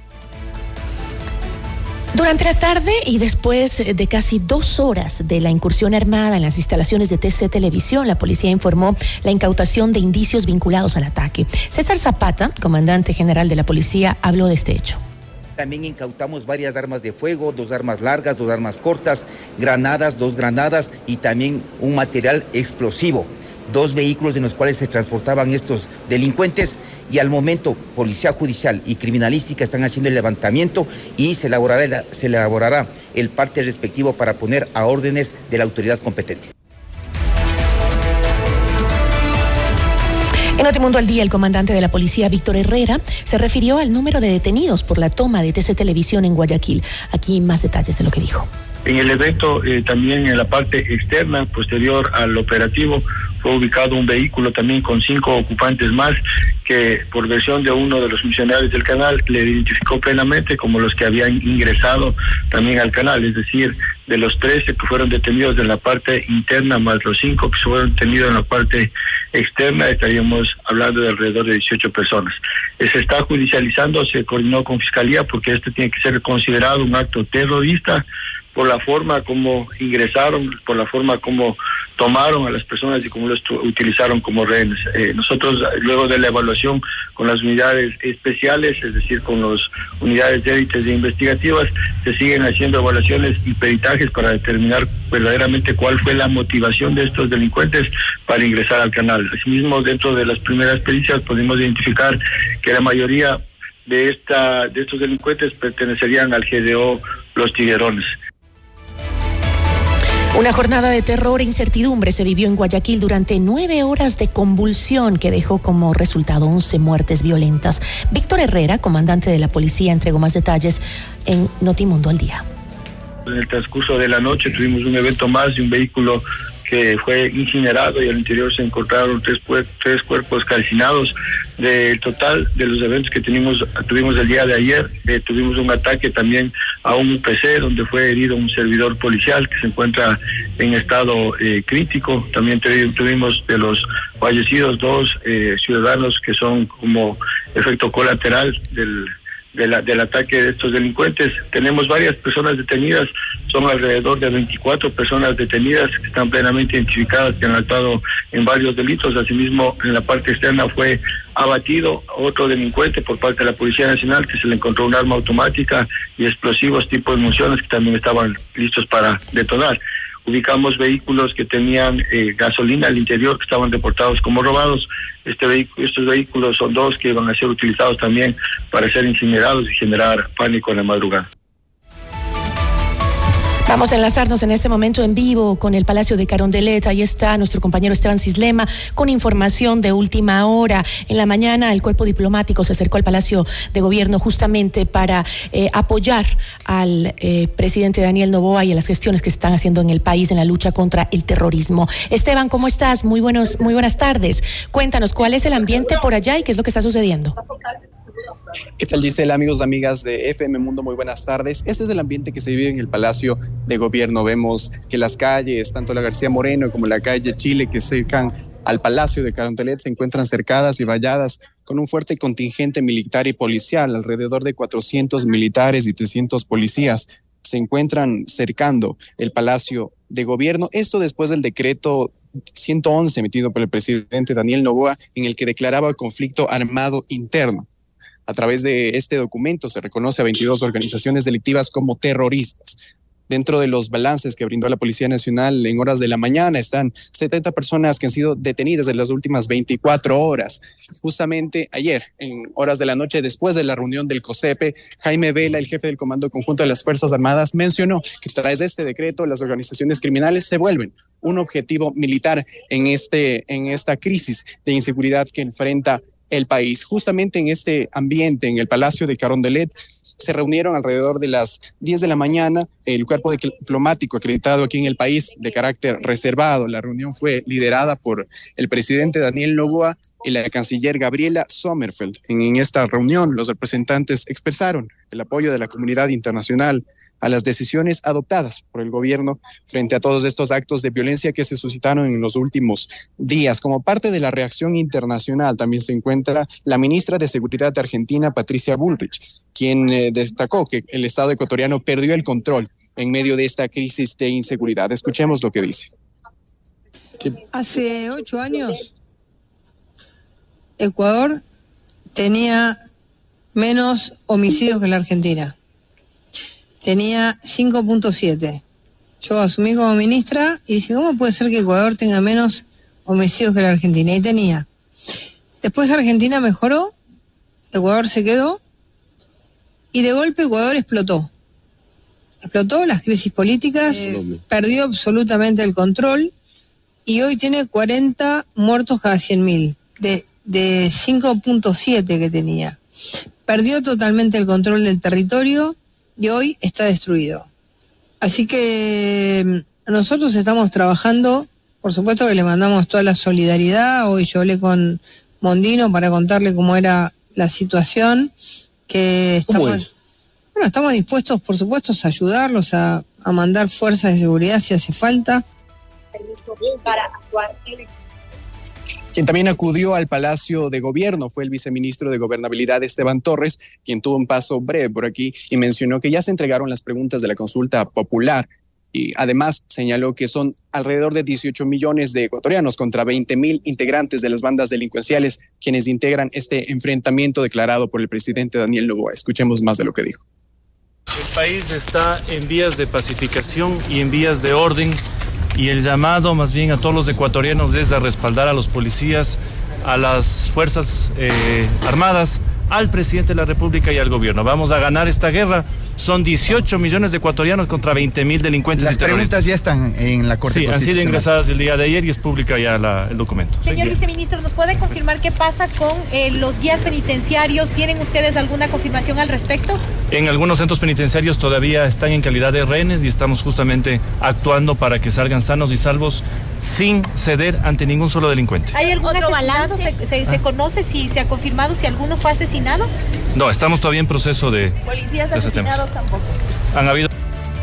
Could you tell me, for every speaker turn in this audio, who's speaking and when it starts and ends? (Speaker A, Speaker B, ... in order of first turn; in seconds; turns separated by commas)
Speaker A: 2.1-15.0, Speaker B: 15.6-36.5, Speaker A: 40.6-48.5, Speaker C: 48.8-108.1, Speaker A: 110.3-122.5, Speaker C: 123.2-181.3, Speaker A: 183.7-207.4, Speaker D: 208.8-237.7, Speaker D: 238.3-305.9, Speaker E: 307.5-308.9, Speaker E: 310.8-311.4, Speaker E: 312.1-312.8, Speaker E: 313.5-315.5, Speaker E: 316.8-318.6, Speaker E: 319.2-324.6, Speaker E: 325.6-326.9, Speaker E: 327.7-328.6, Speaker E: 329.9-331.3, Speaker E: 332.4-336.3, Speaker E: 337.1-342.8, Speaker E: 343.4-347.5, Speaker E: 348.2-358.3, Speaker E: 358.9-359.9, Speaker E: 360.5-365.4, Speaker D: 369.1-390.2, Speaker F: 391.1-395.0, Speaker F: 395.5-409.5, Speaker G: 408.7-411.3, Speaker F: 410.4-413.7, Speaker H: 413.6-419.8, Speaker G: 413.7-414.0, Speaker F: 420.1-428.8, Speaker H: 428.7-432.9, Speaker F: 433.3-434.7, Speaker F: 435.3-435.9, Speaker F: 436.7-437.1